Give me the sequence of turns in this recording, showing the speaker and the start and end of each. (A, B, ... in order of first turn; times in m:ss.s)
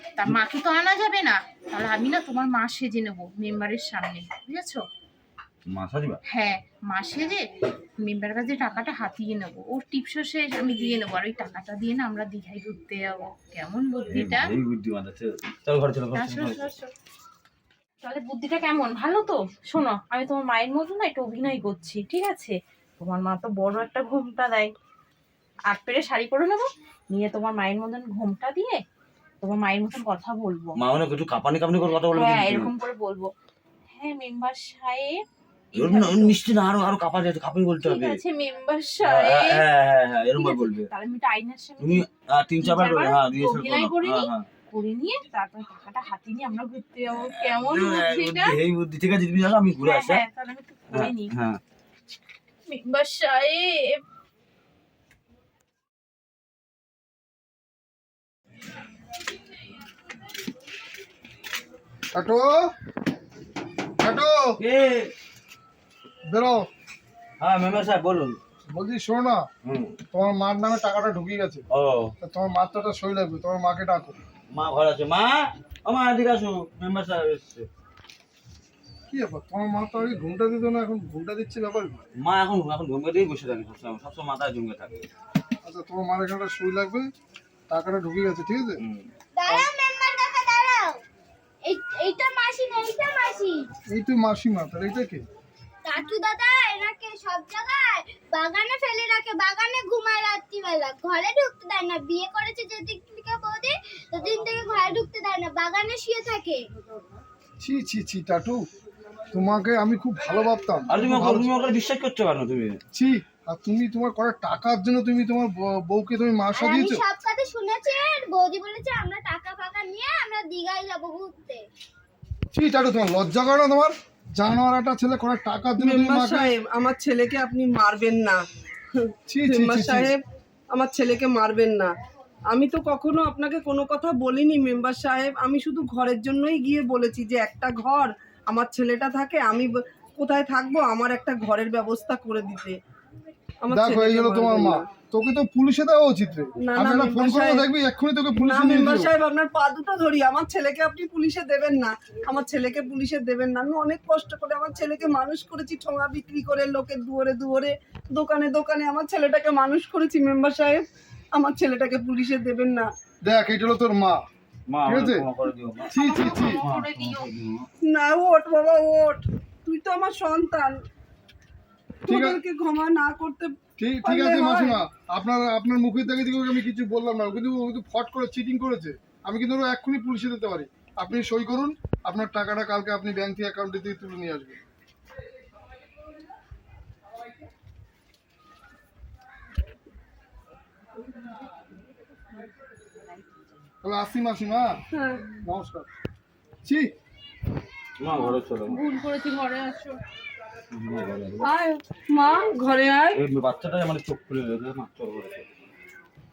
0:00.2-0:04.8 A
0:05.7-0:06.2 B
0:06.3-0:07.4 A
0:08.0-0:14.5 A
0:14.1-0:16.6 B
0:16.1-0:16.9 A
0:18.0-0:24.7 A
0:25.7-0:28.8 A
0:29.4-0:30.7 A
0:30.8-0:32.7 B
0:32.1-0:33.3 A
0:33.9-0:35.2 A
0:35.7-0:36.4 A
0:35.7-0:38.2 B
0:37.8-0:39.6 A
0:39.0-0:40.9 B
0:40.3-0:42.0 A
0:41.8-0:44.5 B
0:42.6-0:48.6 A
0:47.2-0:50.2 B
0:49.8-0:51.3 A
0:50.9-0:51.6 B
0:52.7-0:54.0 A
1:02.1-1:02.7 C
1:04.0-1:04.6 C
1:04.6-1:05.1 B
1:06.3-1:06.7 C
1:07.4-1:08.4 B
1:08.6-1:09.4 C
1:09.6-1:10.0 B
1:10.1-1:11.6 C
1:11.7-1:12.1 B
1:12.2-1:14.2 C
1:14.5-1:17.7 B
1:19.1-1:22.0 C
1:22.2-1:25.1 B
1:25.6-1:27.1 C
1:27.7-1:28.8 C
1:28.8-1:29.1 B
1:29.4-1:31.0 D
1:31.6-1:33.6 D
1:33.9-1:35.2 C
1:35.8-1:46.6 D
1:47.6-1:48.6 C
1:49.3-1:51.5 C
1:50.9-1:52.8 B
1:52.9-1:57.0 C
1:56.5-2:01.6 D
2:02.5-2:06.5 C
2:05.8-2:08.4 E
2:09.0-2:10.2 E
2:09.3-2:10.1 C
2:10.7-2:11.9 E
2:12.5-2:22.8 E
2:23.6-2:24.8 E
2:23.7-2:29.1 C
2:26.6-2:27.6 E
2:28.4-2:42.9 E
2:43.2-2:44.2 C
2:44.7-2:47.7 B
2:44.8-2:45.2 C
2:45.9-2:46.6 C
2:45.9-2:47.3 A
2:47.9-2:50.8 E
2:52.0-2:54.8 E
2:52.1-2:52.4 C
2:53.8-3:04.6 C
3:13.8-3:14.8 C
3:15.0-3:15.2 E
3:15.4-3:15.9 C
3:16.6-3:16.9 C
3:18.0-3:18.8 B
3:18.1-3:20.0 A
3:20.7-3:21.5 B
3:21.4-3:23.2 E
3:23.1-3:25.4 B